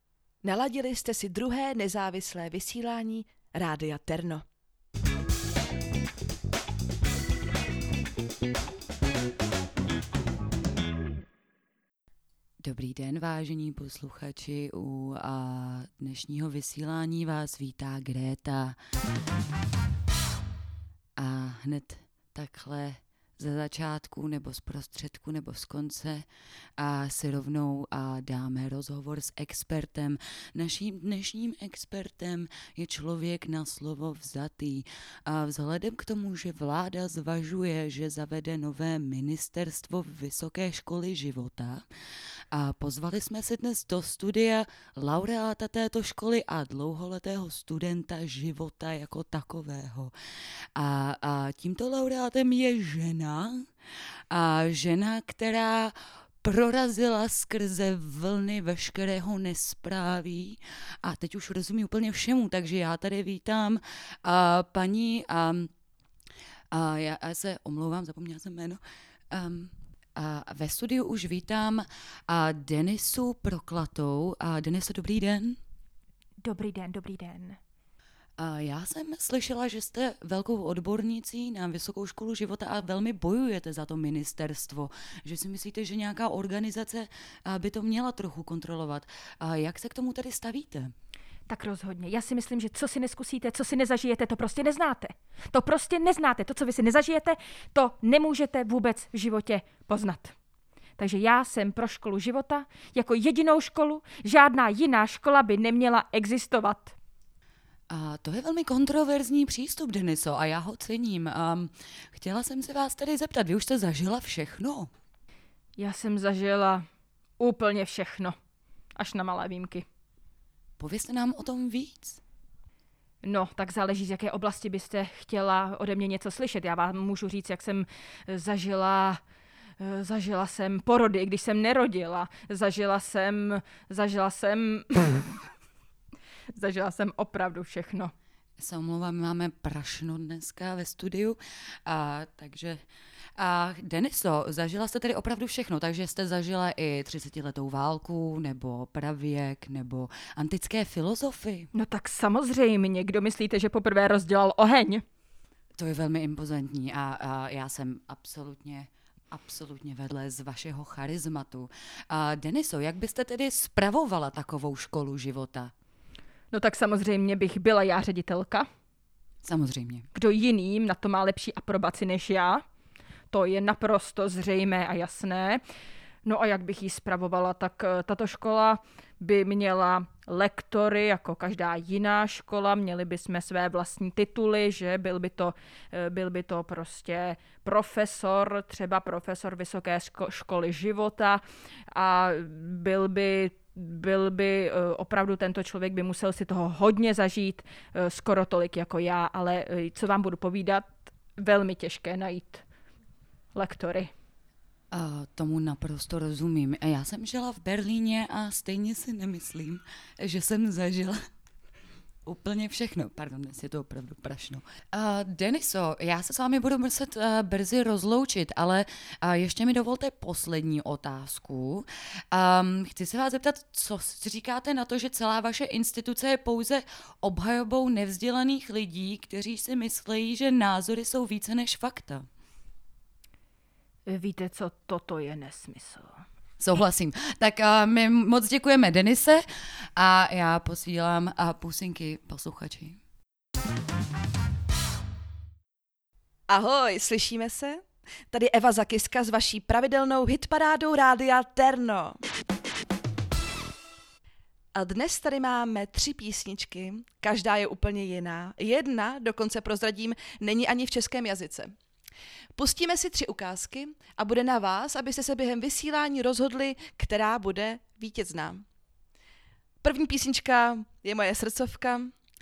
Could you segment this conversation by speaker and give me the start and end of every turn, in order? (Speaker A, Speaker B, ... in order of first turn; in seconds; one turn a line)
Speaker A: 0.4-4.4
Speaker B: 12.6-18.8
Speaker B: 21.2-26.3
Speaker B: 26.8-41.9
Speaker B: 42.5-50.1
Speaker B: 50.8-53.7
Speaker B: 54.3-65.7
Speaker B: 66.7-68.8
Speaker B: 69.3-75.6
Speaker C: 76.4-77.6
Speaker B: 78.4-90.9
Speaker C: 91.5-100.3
Speaker C: 101.0-107.0
Speaker B: 107.9-114.9
Speaker C: 115.8-116.9
Speaker C: 117.4-118.4
Speaker C: 119.0-119.8
Speaker B: 120.8-122.2
Speaker C: 123.2-129.2
Speaker C: 129.8-135.2
Speaker C: 136.6-138.1
Speaker B: 138.6-142.8
Speaker B: 143.4-151.7
Speaker C: 151.7-155.0
Speaker B: 155.8-165.7
Speaker C: 166.5-168.7
Speaker B: 169.4-170.1
Speaker C: 170.2-172.6
Speaker C: 173.3-175.6
Speaker C: 176.2-202.6
Speaker C: 203.5-204.1
Speaker B: 204.9-211.2
Speaker B: 212.3-232.3
Speaker C: 234.1-236.1
Speaker B: 236.6-239.4
Speaker B: 240.0-243.0
Speaker A: 246.5-252.2
Speaker A: 254.8-261.7
Speaker A: 262.6-268.6
Speaker A: 269.8-272.1